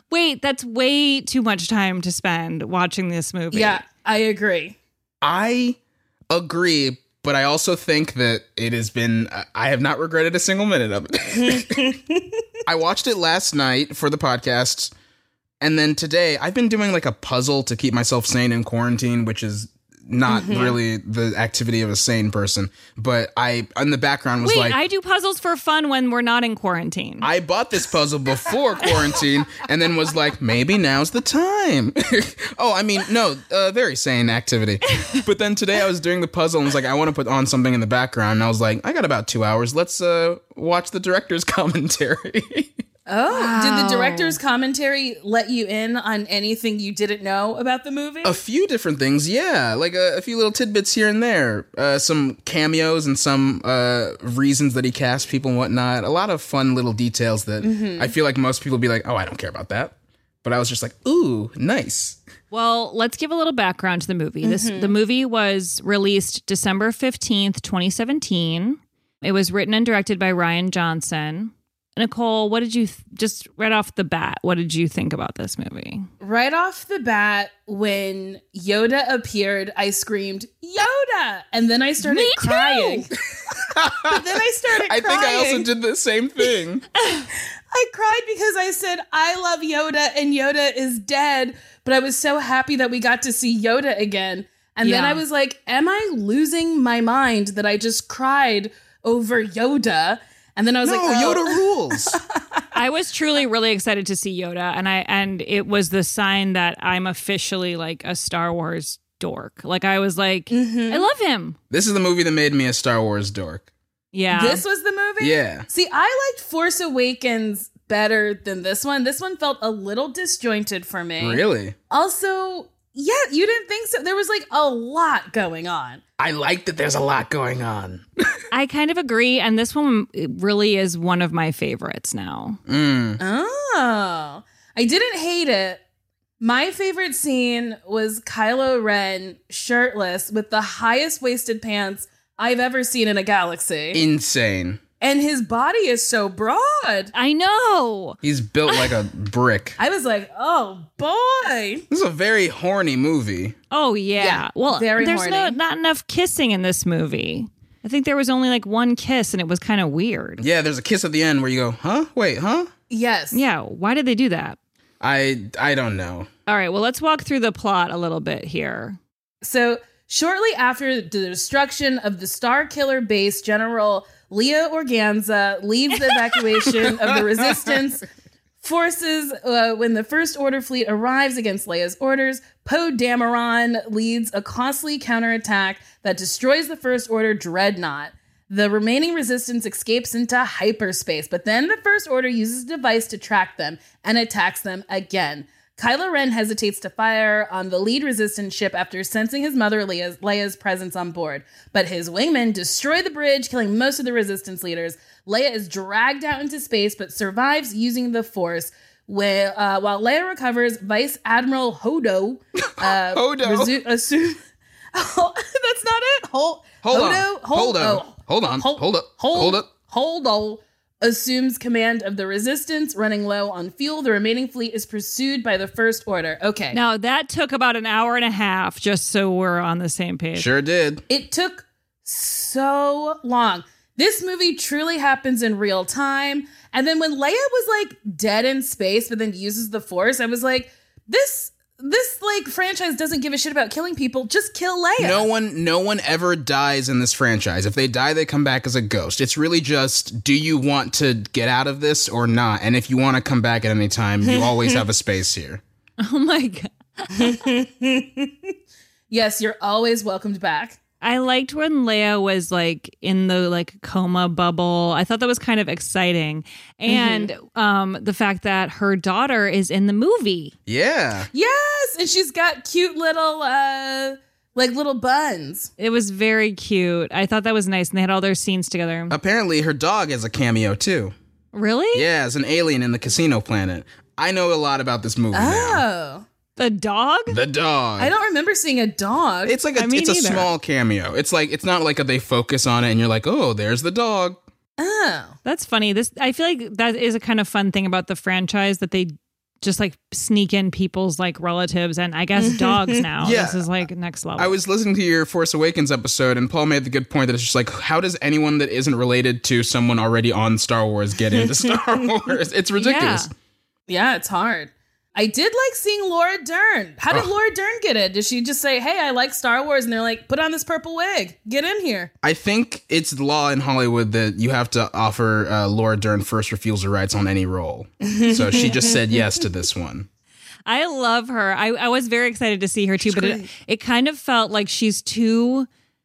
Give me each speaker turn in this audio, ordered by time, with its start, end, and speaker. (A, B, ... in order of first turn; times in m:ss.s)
0:00.1-0:03.8 A
0:03.5-0:04.8 B
0:05.2-0:05.8 C
0:06.3-0:11.8 C
0:11.4-0:12.4 B
0:12.6-0:14.9 C
0:15.6-0:24.8 C
0:20.2-0:20.8 B
0:24.4-0:27.3 A
0:27.2-0:42.7 C
0:43.1-0:48.4 B
0:43.3-0:44.4 A
0:48.2-1:02.2 C
0:57.6-0:58.1 B
1:02.5-1:16.1 A
1:04.4-1:05.0 B
1:16.2-1:23.1 B
1:22.0-1:23.1 A
1:23.7-1:26.8 C
1:24.0-1:25.7 B
1:27.0-1:27.3 A
1:27.7-1:42.6 B
1:34.8-1:35.2 A
1:40.8-1:42.2 C
1:42.7-1:51.6 A
1:50.5-1:51.0 B
1:51.7-1:53.7 C
1:54.1-1:54.6 A
1:54.3-2:06.0 B
1:55.2-1:55.7 C
2:01.2-2:01.7 C
2:06.2-2:08.0 C
2:08.5-2:12.6 A
2:12.7-2:13.2 C
2:13.2-2:15.8 B
2:16.4-2:24.0 B
2:23.9-2:24.8 C
2:25.0-2:27.1 B
2:27.1-2:28.9 A
2:28.2-2:29.8 C
2:29.8-2:31.8 B
2:31.9-2:33.6 C
2:33.7-2:40.4 A
2:34.2-2:35.6 B
2:40.4-2:42.7 C
2:42.9-2:43.4 B
2:43.3-2:44.6 A
2:45.0-2:46.3 C
2:46.5-2:49.0 A
2:49.4-2:58.0 B
2:56.8-2:57.8 C
2:58.6-3:34.4 B
3:32.7-3:33.7 C
3:34.9-3:46.8 B
3:36.8-3:39.6 C
3:46.7-3:50.5 A
3:50.4-3:51.0 C
3:51.1-4:05.2 B
4:05.0-4:15.6 C
4:14.2-4:14.8 B
4:16.0-4:17.3 A
4:17.2-4:18.5 B
4:19.1-4:20.8 B
4:21.0-4:30.5 A
4:26.9-4:27.3 B
4:30.7-4:31.3 C
4:31.3-4:35.7 B
4:35.8-4:39.1 A
4:39.1-4:41.1 C
4:41.5-4:42.0 A
4:41.9-4:45.8 C
4:45.3-4:46.2 B
4:46.6-4:47.4 A
4:47.3-4:48.1 C
4:48.0-4:49.6 B
4:49.4-4:54.4 C
4:49.7-4:50.5 A
4:54.8-4:55.4 B
4:55.4-5:04.6 A
5:02.4-5:03.0 B
5:03.2-5:03.6 C
5:04.4-5:13.3 C
5:11.4-5:12.0 B
5:12.8-5:13.3 A
5:13.9-5:22.1 B
5:22.2-5:30.1 C
5:28.0-5:29.2 B
5:30.7-5:35.7 A
5:33.0-5:33.5 B